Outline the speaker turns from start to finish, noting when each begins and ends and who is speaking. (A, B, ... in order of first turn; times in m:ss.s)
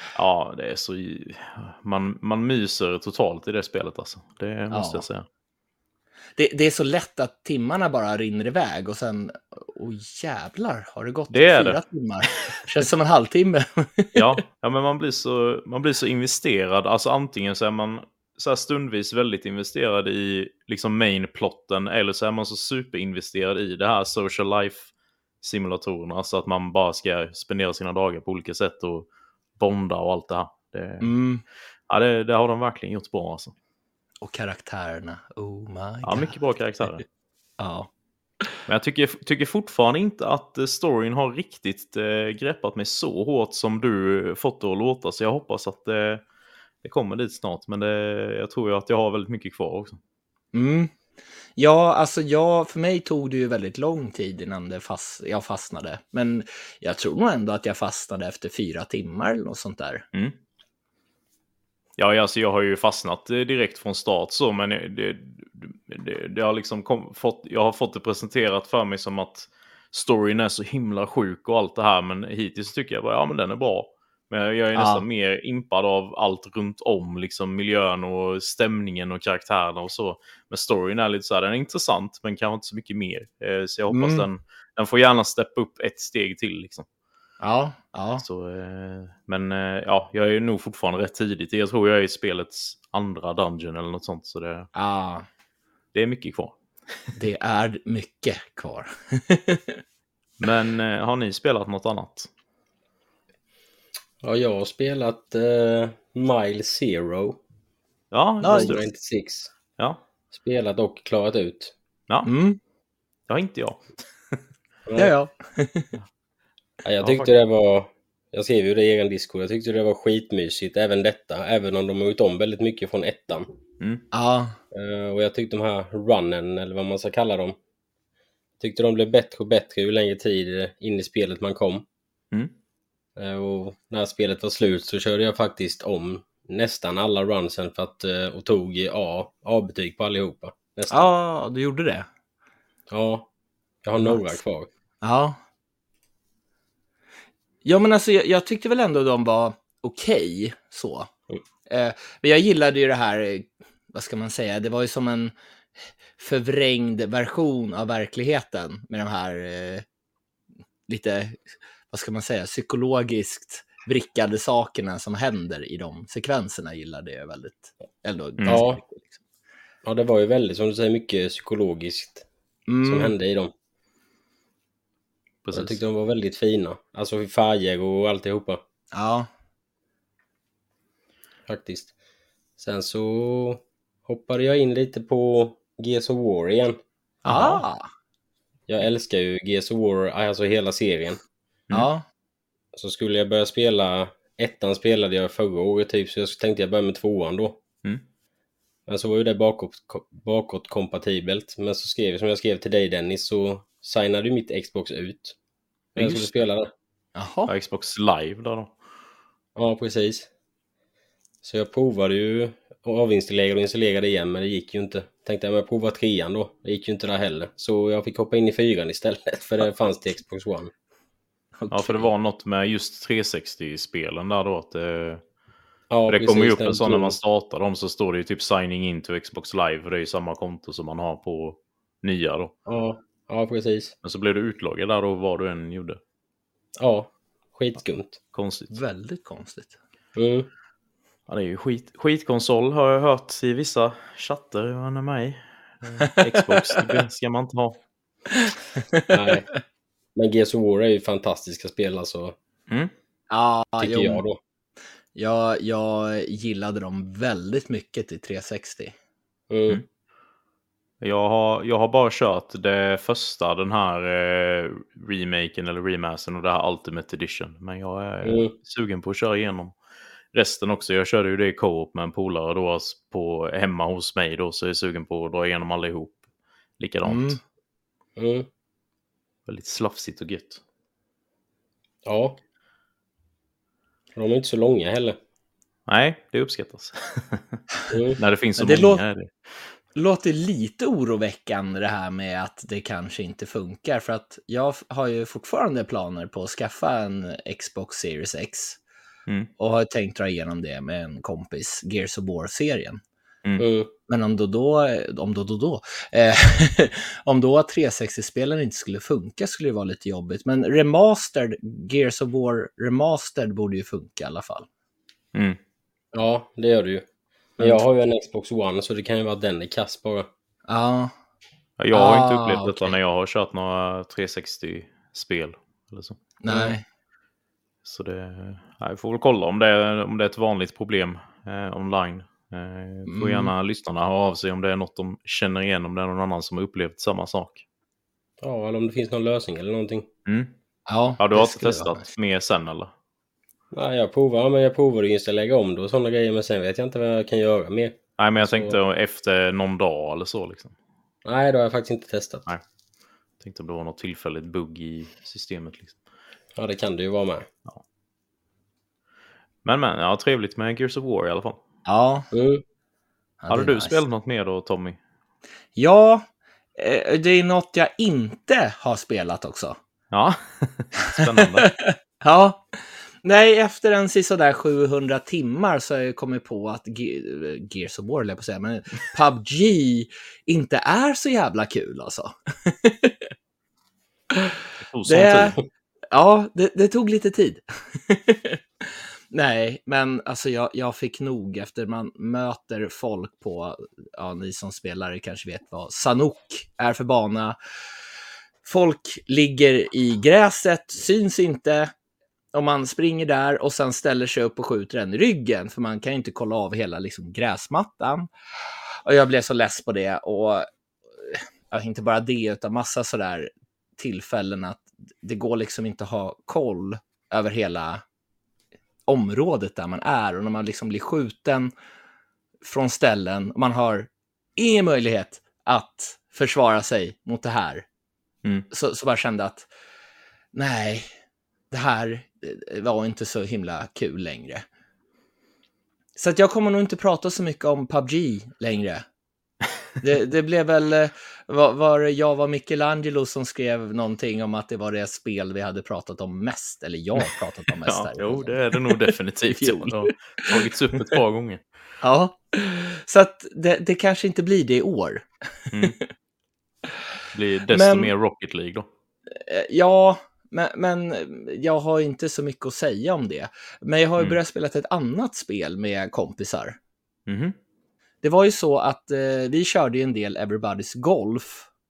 0:00.2-0:05.3 A
0:04.7-0:05.1 B
0:06.4-0:14.4 B
0:11.3-0:12.6 A
0:14.2-0:24.9 A
0:25.4-0:29.1 A
0:29.6-0:31.1 A
0:31.0-0:31.4 B
0:31.9-0:33.5 A
0:34.2-0:36.3 B
0:36.0-0:37.0 A
0:37.6-0:37.9 B
0:38.7-0:46.2 A
0:46.8-0:50.0 A
0:50.5-0:50.9 B
0:51.6-1:00.0 B
1:02.0-1:26.9 A
1:14.8-1:15.0 B
1:23.9-1:24.3 B
1:27.4-1:28.2 B
1:28.2-1:34.7 A
1:34.7-1:35.3 B
1:35.9-1:36.6 A
1:37.2-1:39.8 B
1:40.4-1:42.3 A
1:44.2-1:47.4 C
1:48.1-1:48.9 A
1:48.4-1:48.8 B
1:48.5-1:49.5 C
1:50.3-1:51.7 C
1:52.2-1:52.6 B
1:53.3-1:54.4 A
1:54.9-1:55.1 C
1:55.0-1:55.9 B
1:56.8-2:03.5 C
1:57.0-1:57.3 A
2:04.1-2:04.6 B
2:04.7-2:07.6 C
2:08.6-2:11.9 C
2:13.2-2:21.1 C
2:20.9-2:22.1 B
2:22.9-2:23.3 C
2:23.8-2:24.7 C
2:24.0-2:24.4 B
2:25.0-2:25.4 B
2:27.6-2:31.1 B
2:31.7-2:35.3 B
2:36.2-2:39.8 B
2:40.9-2:49.2 B
2:48.4-2:48.6 A
2:48.5-2:48.8 C
2:49.8-2:52.3 C
2:52.7-2:53.1 B
2:52.8-2:53.5 C
2:55.4-2:55.8 A
2:55.5-2:58.6 C
2:58.9-2:59.3 B
3:01.5-3:01.9 C
3:02.6-3:06.8 C
3:07.2-3:07.9 B
3:07.3-3:07.6 A
3:08.7-3:11.2 C
3:11.7-3:12.0 B
3:12.7-3:17.6 C
3:18.9-3:25.4 C
3:26.0-3:26.7 C
3:26.0-3:26.3 A
3:27.2-3:27.5 B
3:27.5-3:28.8 A
3:29.6-3:30.3 C
3:31.4-3:40.7 C
3:41.6-3:42.1 B
3:41.7-3:45.2 A
3:45.9-3:47.2 C
3:46.1-3:52.5 A
3:52.7-3:54.0 C
3:54.0-3:56.0 A
3:56.8-3:58.2 C
3:58.3-3:58.8 A
3:58.7-3:59.8 B
4:00.2-4:00.5 C
4:01.3-4:07.8 A
4:06.0-4:07.0 B
4:08.3-4:09.1 B
4:09.1-4:09.5 C
4:10.2-4:12.4 C
4:13.3-4:14.2 B
4:13.8-4:14.4 C
4:15.2-4:18.9 B
4:19.5-4:19.8 C
4:21.0-4:29.8 A
4:28.2-4:28.5 C
4:30.3-4:36.2 A
4:36.8-4:37.4 A
4:37.0-4:37.4 B
4:38.2-4:38.5 C
4:39.5-4:40.6 A
4:42.0-4:42.4 C
4:44.2-4:45.2 C
4:45.9-4:47.6 A
4:47.9-4:48.2 C
4:48.2-4:49.3 A
4:48.6-4:49.0 B
4:50.0-4:58.8 B
4:59.6-5:03.0 B
5:03.6-5:03.9 C
5:04.1-5:14.7 B
5:16.1-5:17.1 C
5:17.6-5:20.3 C
5:20.7-5:21.1 B
5:21.8-5:26.2 A
5:21.9-5:23.0 B
5:26.4-5:26.8 B
5:27.8-5:37.6 A
5:33.1-5:33.5 B
5:38.4-5:40.1 C
5:40.3-5:40.5 A
5:40.9-5:42.1 B
5:41.2-5:42.9 A
5:43.7-5:48.8 C
5:48.2-5:50.7 A
5:51.2-5:52.4 C
5:53.4-5:56.0 A
5:56.6-5:57.5 C
5:59.6-6:01.6 A
6:01.8-6:02.3 B
6:02.3-6:02.6 C
6:03.4-6:04.0 B
6:03.5-6:05.0 A
6:05.8-6:09.8 B
6:10.1-6:11.7 A
6:11.2-6:23.3 B
6:24.3-6:25.6 B
6:24.8-6:25.6 A
6:26.1-6:37.6 B
6:38.6-6:41.9 B
6:42.5-6:48.3 B
6:49.0-6:50.7 B
6:51.2-6:58.0 B
6:59.1-7:01.7 B
7:02.6-7:07.9 B
7:08.7-7:09.7 B
7:10.5-7:11.1 B
7:11.7-7:14.7 B
7:16.2-7:19.0 B
7:20.0-7:31.2 B
7:27.8-7:31.6 A
7:32.0-7:35.9 B
7:37.3-7:38.9 A
7:37.7-7:38.1 B
7:39.3-7:46.8 B
7:47.3-7:47.6 A
7:48.2-7:51.7 B